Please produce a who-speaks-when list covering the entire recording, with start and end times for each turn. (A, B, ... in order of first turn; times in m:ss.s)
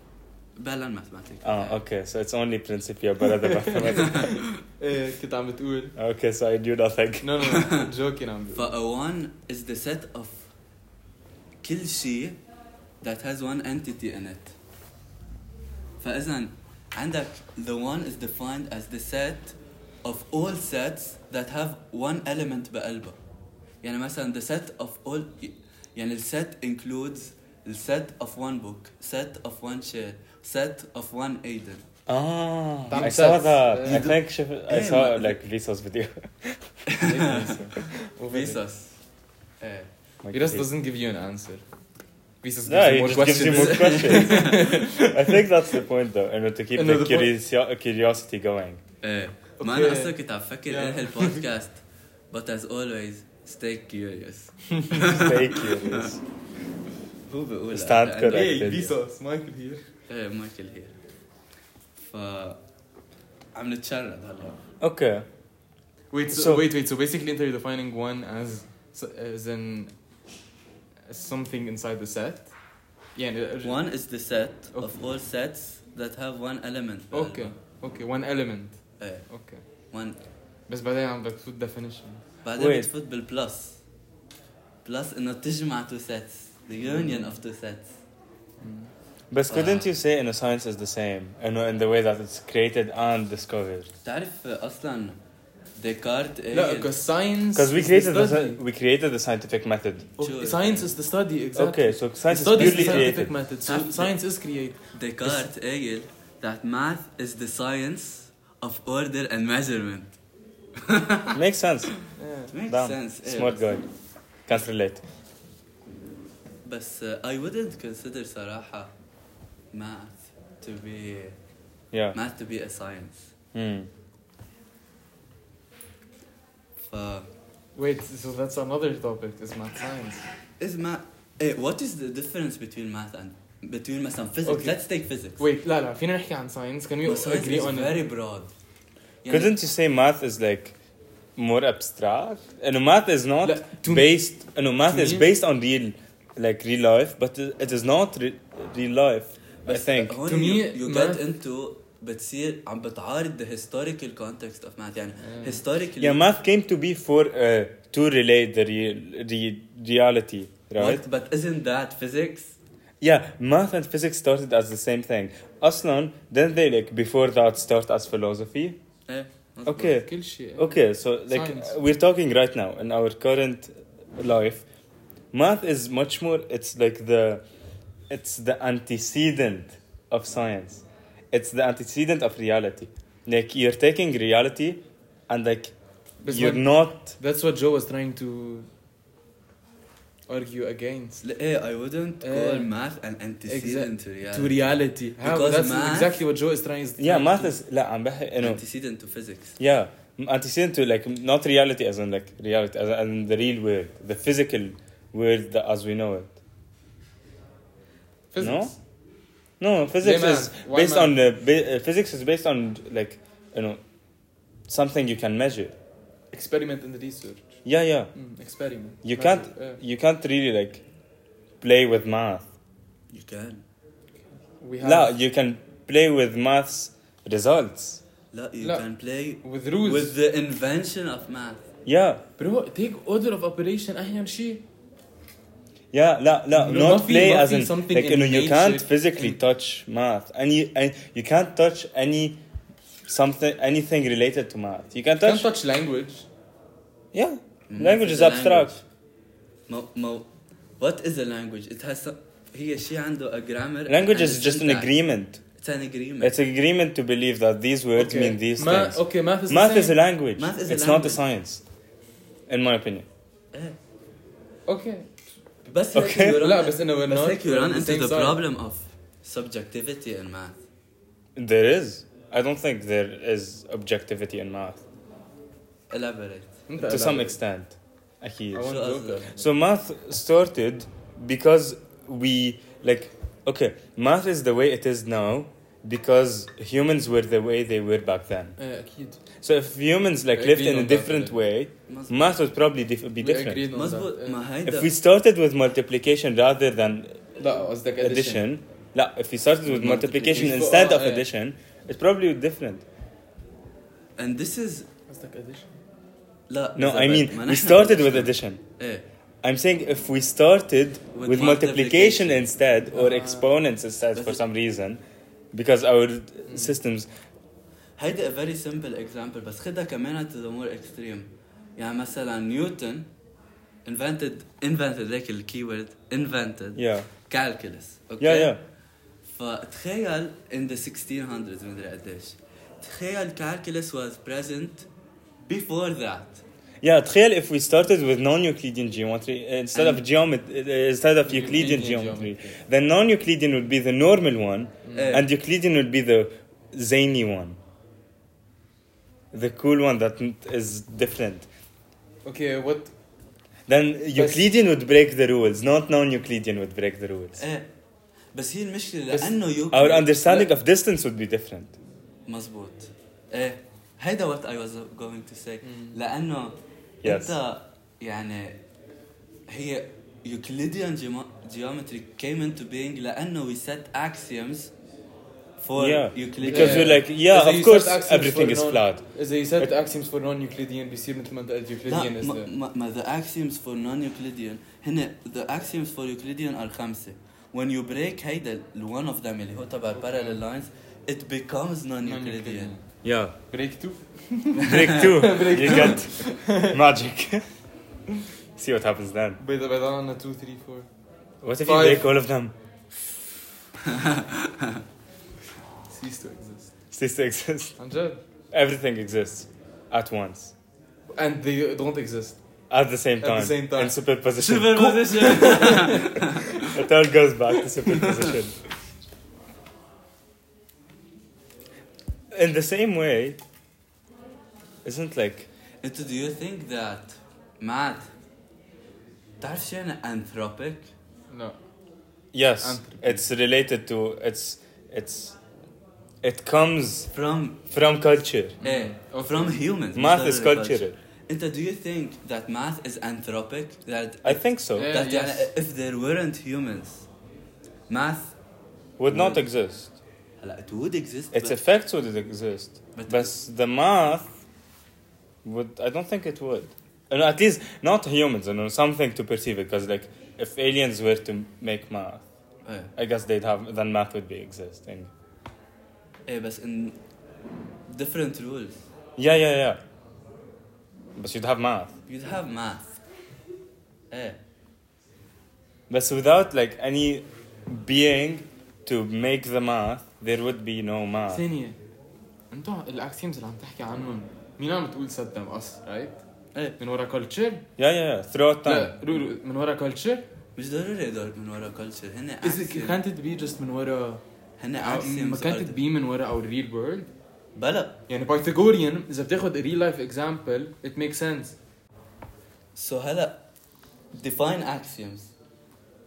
0:00.6-0:01.8 A
0:01.4-0:04.4 B
0:03.4-0:06.0 C
0:03.9-0:04.5 A
0:06.0-0:07.5 B
0:07.2-0:08.7 C
0:07.5-0:07.9 A
0:08.5-0:10.5 A
0:11.6-0:12.4 A
0:13.0-0:14.6 A
0:16.0-0:23.2 A
0:23.8-0:31.9 A
0:32.1-0:36.7 B
0:32.9-0:34.1 C
0:33.8-0:35.4 A
0:36.9-0:37.7 A
0:37.0-0:38.6 C
0:38.3-0:38.9 A
0:39.6-0:39.9 A
0:40.2-0:40.7 B
0:40.3-0:41.6 C
0:42.4-0:45.4 C
0:42.7-0:48.8 B
0:43.5-0:44.8 A
0:46.8-0:47.3 C
0:49.0-0:51.8 A
0:49.6-0:50.1 C
0:50.7-0:51.4 C
0:52.3-0:56.2 A
0:54.7-0:55.1 C
0:55.0-0:56.2 B
0:57.3-0:58.5 A
0:57.7-0:58.9 B
0:58.2-0:59.9 C
1:00.1-1:01.0 A
1:02.0-1:02.6 A
1:03.5-1:04.6 A
1:04.8-1:05.3 B
1:06.1-1:09.9 C
1:06.3-1:06.6 B
1:11.1-1:12.5 C
1:13.2-1:13.8 C
1:13.6-1:17.5 A
1:17.1-1:19.6 C
1:19.0-1:19.3 A
1:19.9-1:20.2 A
1:20.7-1:22.2 C
1:22.4-1:23.8 A
1:22.6-1:22.9 B
1:24.8-1:28.0 A
1:26.8-1:27.4 C
1:28.6-1:28.9 C
1:29.3-1:33.9 B
1:29.5-1:29.9 A
1:34.0-1:35.2 A
1:35.8-1:36.9 A
1:36.5-1:38.6 C
1:37.6-1:40.1 B
1:40.2-1:45.5 C
1:40.2-1:40.9 A
1:41.5-1:43.3 B
1:42.6-1:43.1 A
1:43.6-1:44.1 A
1:44.9-1:50.1 A
1:50.8-1:51.4 A
1:51.3-1:52.0 B
1:52.2-1:52.5 C
1:52.5-1:53.7 A
1:52.7-1:53.9 B
1:54.5-1:55.0 B
1:56.6-1:58.9 A
1:59.7-2:01.4 A
2:01.9-2:02.2 B
2:02.1-2:03.3 A
2:03.5-2:03.9 B
2:06.8-2:07.3 A
2:07.8-2:10.3 C
2:10.6-2:15.4 A
2:14.4-2:14.8 C
2:15.4-2:18.0 C
2:17.0-2:18.5 A
2:19.2-2:19.5 A
2:19.3-2:20.8 B
2:21.4-2:30.2 B
2:23.4-2:24.1 C
2:24.8-2:25.3 C
2:29.7-2:36.2 A
2:30.2-2:31.2 C
2:35.2-2:35.6 C
2:36.0-2:41.0 B
2:40.8-2:42.6 A
2:43.0-2:48.8 B
2:49.1-2:50.0 A
2:49.7-2:54.7 B
2:50.0-2:51.8 C
2:55.3-2:57.4 B
2:58.1-3:05.8 B
3:06.2-3:08.7 C
3:06.3-3:07.1 B
3:10.3-3:11.2 C
3:11.2-3:16.2 A
3:12.2-3:12.7 C
3:13.5-3:17.6 C
3:17.0-3:18.6 B
3:18.4-3:19.6 A
3:19.6-3:26.4 B
3:28.3-3:28.8 C
3:28.4-3:28.7 B
3:29.6-3:33.8 B
3:30.0-3:31.2 C
3:34.7-3:35.8 B
3:36.3-3:37.6 C
3:37.6-3:38.1 B
3:38.1-3:39.8 C
3:39.0-3:40.8 B
3:41.6-3:42.5 B
3:43.1-3:43.6 A
3:44.6-3:45.1 C
3:44.8-3:48.0 B
3:48.3-3:51.7 A
3:48.6-3:48.9 C
3:49.4-3:50.1 C
3:51.9-3:52.2 B
3:52.4-3:54.6 C
3:55.9-4:02.4 B
3:56.6-3:59.4 C
4:03.1-4:05.5 B
4:05.2-4:06.3 C
4:07.1-4:08.7 B
4:07.7-4:08.8 A
4:09.7-4:10.3 A
4:10.8-4:14.9 A
4:13.9-4:15.4 B
4:15.6-4:16.4 A
4:16.2-4:21.6 B
4:18.0-4:20.0 C
4:20.4-4:21.3 A
4:22.5-4:23.1 B
4:24.7-4:25.1 C
4:25.6-4:30.6 A
4:25.9-4:26.4 B
4:26.3-4:28.4 C
4:31.4-4:34.8 B
4:35.9-4:36.6 A
4:36.7-4:37.4 C
4:36.8-4:38.8 B
4:38.5-4:39.4 C
4:38.6-4:39.4 A
4:39.3-4:48.6 B
4:48.6-4:49.2 C
4:49.4-4:53.6 B
4:50.3-4:51.4 C
4:51.9-4:52.4 A
4:53.2-4:54.4 C
4:53.7-4:54.9 A
4:54.7-4:57.2 B
4:57.4-4:58.5 C
4:58.0-5:02.8 B
4:59.7-5:00.6 A
5:00.1-5:01.2 C
5:04.2-5:04.9 A
5:05.1-5:05.8 C
5:06.5-5:09.0 A
5:06.8-5:08.6 B
5:09.4-5:15.0 B
5:11.1-5:12.5 A
5:12.9-5:13.5 C
5:14.2-5:14.4 A
5:15.5-5:17.1 B
5:16.5-5:16.8 C
5:18.0-5:23.1 A
5:23.8-5:28.6 A
5:26.8-5:27.1 B
5:28.2-5:28.6 B
5:29.2-5:34.9 A
5:35.5-5:36.4 A
5:36.8-5:47.6 B
5:39.8-5:40.0 A
5:41.2-5:42.6 C
5:44.9-5:45.2 C
5:44.9-5:45.3 A
5:49.3-5:51.5 B
5:52.2-5:52.9 C
5:53.7-5:57.4 B
5:54.2-5:54.4 C
5:57.4-5:57.6 A
5:58.3-6:00.5 A
5:59.2-6:01.7 B
6:02.3-6:08.6 A
6:05.6-6:06.0 C
6:07.0-6:07.4 B
6:09.5-6:14.7 A
6:15.6-6:17.0 A
6:15.8-6:19.0 B
6:16.4-6:22.5 C
6:21.9-6:32.7 A
6:30.0-6:30.4 C
6:32.0-6:32.9 C
6:33.0-6:33.4 B
6:33.5-6:36.8 C
6:34.6-6:35.1 A
6:34.6-6:37.4 B
6:38.6-6:39.4 B
6:39.4-6:40.9 C
6:41.4-6:42.5 B
6:41.6-6:42.1 C
6:43.9-6:44.8 A
6:45.9-6:46.7 C
6:46.9-6:47.8 B
6:47.8-6:48.2 C
6:48.5-6:50.5 B
6:51.2-6:52.4 C
6:52.7-6:55.7 B
6:53.2-6:53.9 C
6:54.4-6:56.7 A
6:55.1-6:56.4 C
6:56.6-6:58.6 B
7:02.3-7:03.4 B
7:04.8-7:05.5 B
7:05.8-7:08.1 A
7:09.4-7:10.9 A
7:11.3-7:11.6 C
7:12.3-7:15.4 B
7:12.6-7:13.2 C
7:16.2-7:17.1 B
7:17.1-7:17.6 A
7:17.7-7:18.6 B
7:18.6-7:19.6 C
7:18.6-7:27.1 A
7:19.9-7:21.0 B
7:24.2-7:24.9 B
7:24.8-7:25.5 C
7:27.9-7:28.3 A
7:29.0-7:29.9 B
7:29.1-7:29.4 A
7:30.4-7:31.6 A
7:31.3-7:34.3 B
7:33.0-7:33.3 A
7:35.4-7:42.3 B
7:42.6-7:42.9 A
7:43.0-7:45.1 B
7:46.3-7:47.0 A
7:47.9-7:48.8 A
7:49.2-7:49.8 B
7:51.2-7:51.9 B
7:52.1-7:53.0 A
7:54.1-7:54.4 A
7:55.9-8:01.4 B
8:01.3-8:01.8 C
8:02.5-8:06.2 C
8:06.8-8:07.7 C
8:07.8-8:09.0 B
8:08.6-8:10.2 C
8:10.6-8:13.0 A
8:12.4-8:14.2 C
8:14.6-8:15.8 A
8:14.8-8:17.1 C
8:17.6-8:18.0 A
8:18.1-8:21.6 C
8:22.8-8:23.4 A
8:24.1-8:25.3 A